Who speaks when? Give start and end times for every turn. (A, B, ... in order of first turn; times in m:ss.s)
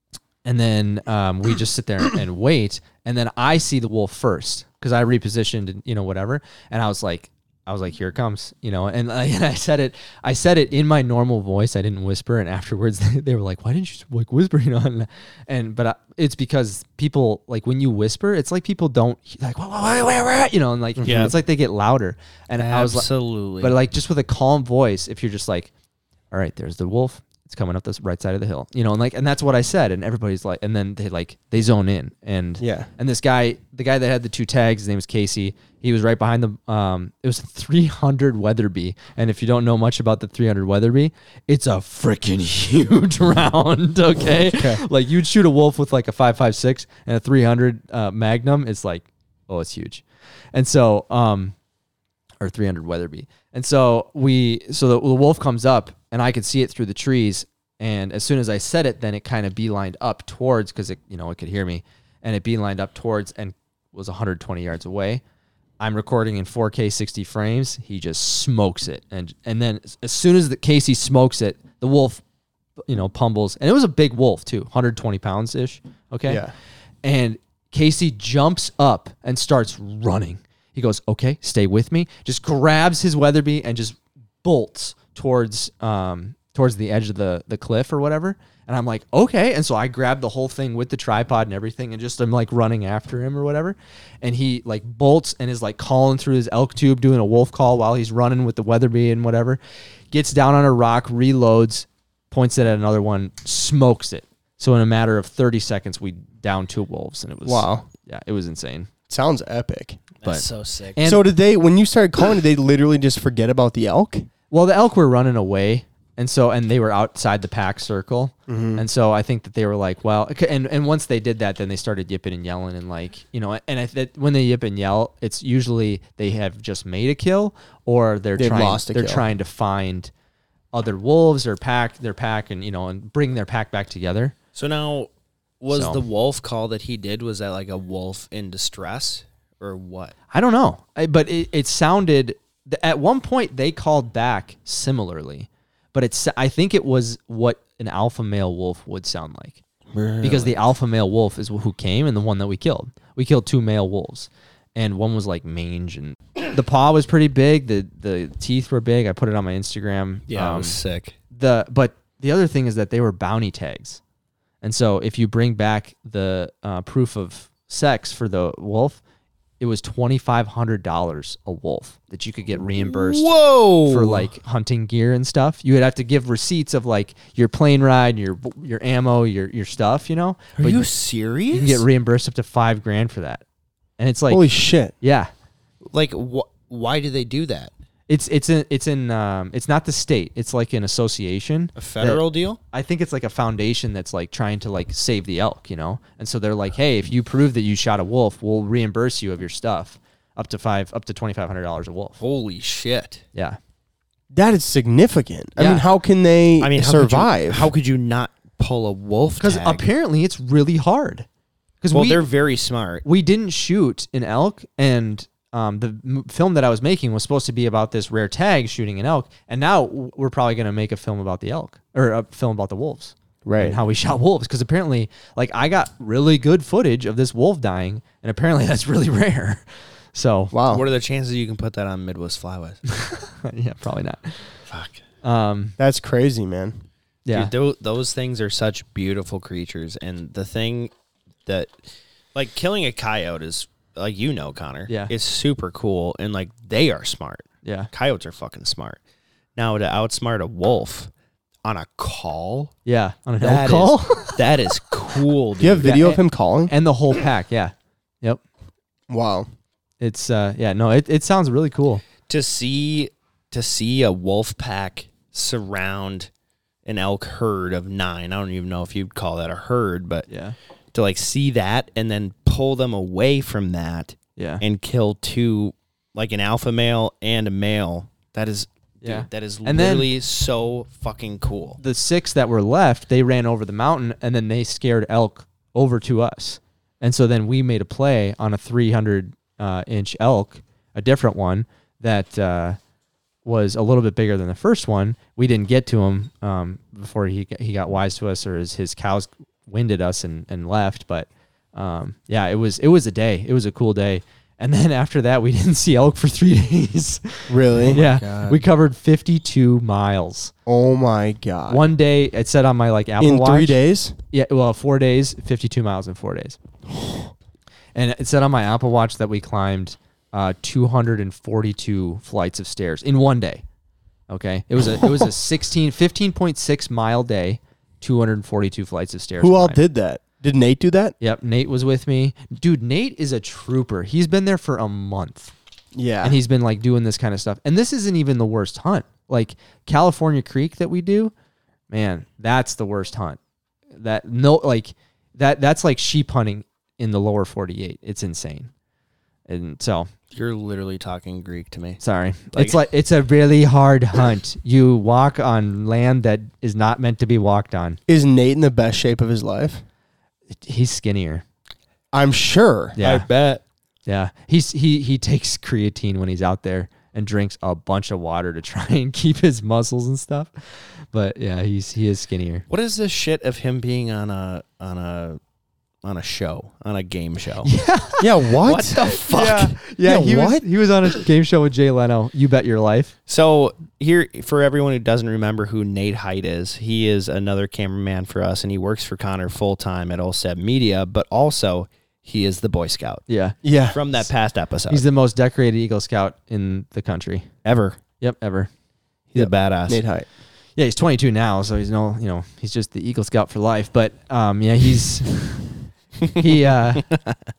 0:00.4-0:25.7 A
0:21.0-0:21.3 B
0:21.0-0:21.4 C
0:22.6-0:23.8 C
0:26.3-0:51.6 A
0:32.6-0:32.9 B
0:44.4-0:44.8 B
0:52.4-1:05.2 A
1:05.8-1:12.2 A
1:12.9-1:16.5 A
1:16.3-1:16.5 B
1:17.0-1:39.6 A
1:40.1-1:48.9 A
1:47.4-1:47.9 B
1:49.1-1:50.0 B
1:50.2-1:51.0 C
1:50.2-1:51.3 A
1:51.0-1:54.3 B
1:54.5-2:10.1 A
1:58.5-1:58.8 B
2:08.4-2:09.2 B
2:10.7-2:14.4 A
2:14.6-2:15.1 C
2:15.6-2:20.1 C
2:15.7-2:16.0 A
2:20.3-2:29.6 A
2:29.9-2:30.6 C
2:30.2-2:40.8 A
2:40.3-2:41.2 C
2:41.3-2:44.0 A
2:44.6-2:49.0 A
2:49.6-2:53.3 A
2:52.6-2:54.3 C
2:53.8-3:00.9 A
3:00.6-3:01.8 C
3:01.5-3:03.4 A
3:04.0-3:04.5 A
3:04.3-3:04.9 B
3:05.0-3:05.3 A
3:05.9-3:07.7 C
3:08.1-3:22.2 A
3:11.8-3:12.6 C
3:22.2-3:23.2 C
3:24.3-3:27.7 B
3:25.6-3:25.8 A
3:26.6-3:29.8 C
3:29.4-3:31.3 A
3:31.8-3:32.2 A
3:31.9-3:33.0 C
3:33.0-3:49.6 A
3:43.4-3:43.8 B
3:50.1-3:50.5 A
3:50.5-3:50.8 B
3:50.7-3:52.8 C
3:52.9-3:54.4 A
3:54.7-3:55.0 C
3:55.2-3:55.8 A
3:55.8-3:56.8 B
3:57.3-3:57.5 A
3:57.3-4:00.9 C
4:01.5-4:01.8 C
4:02.4-4:09.0 C
4:04.9-4:05.1 A
4:09.6-4:11.1 C
4:11.6-4:12.7 C
4:12.9-4:14.4 A
4:13.4-4:15.9 C
4:15.6-4:16.7 B
4:15.8-4:18.4 A
4:19.1-4:19.5 B
4:20.0-4:22.0 A
4:22.3-4:26.3 C
4:26.8-4:30.3 C
4:30.3-4:30.6 A
4:30.9-4:41.8 C
4:34.4-4:34.6 A
4:39.0-4:40.1 A
4:41.8-4:52.8 A
4:53.4-5:10.5 A
5:07.5-5:08.0 B
5:07.8-5:08.6 C
5:10.7-5:11.8 B
5:11.7-5:13.8 A
5:13.2-5:14.2 B
5:14.3-5:16.6 A
5:18.0-5:23.6 A
5:24.3-5:29.8 A
5:29.4-5:31.2 B
5:31.2-5:35.5 A
5:36.0-5:36.4 B
5:36.2-5:41.3 A
5:41.9-5:43.4 A
5:44.0-5:48.7 A
5:49.5-5:50.1 A
5:50.3-5:52.0 C
5:52.0-5:58.0 A
5:52.5-5:52.8 C
5:58.1-5:59.8 B
6:00.6-6:01.4 A
6:02.1-6:03.0 B
6:03.0-6:03.3 A
6:03.0-6:03.6 C
6:04.1-6:12.7 A
6:12.7-6:15.4 C
6:16.0-6:17.7 C
6:17.6-6:23.1 A
6:18.2-6:19.2 B
6:18.6-6:19.8 C
6:20.0-6:20.6 B
6:23.3-6:33.2 C
6:33.3-6:33.6 A
6:33.6-6:34.0 B
6:33.9-6:35.0 C
6:34.9-6:37.5 A
6:37.6-6:38.0 C
6:38.2-6:38.7 A
6:39.3-6:40.0 C
6:39.4-6:40.3 B
6:40.8-6:45.7 A
6:46.3-6:47.1 A
6:47.0-6:47.4 C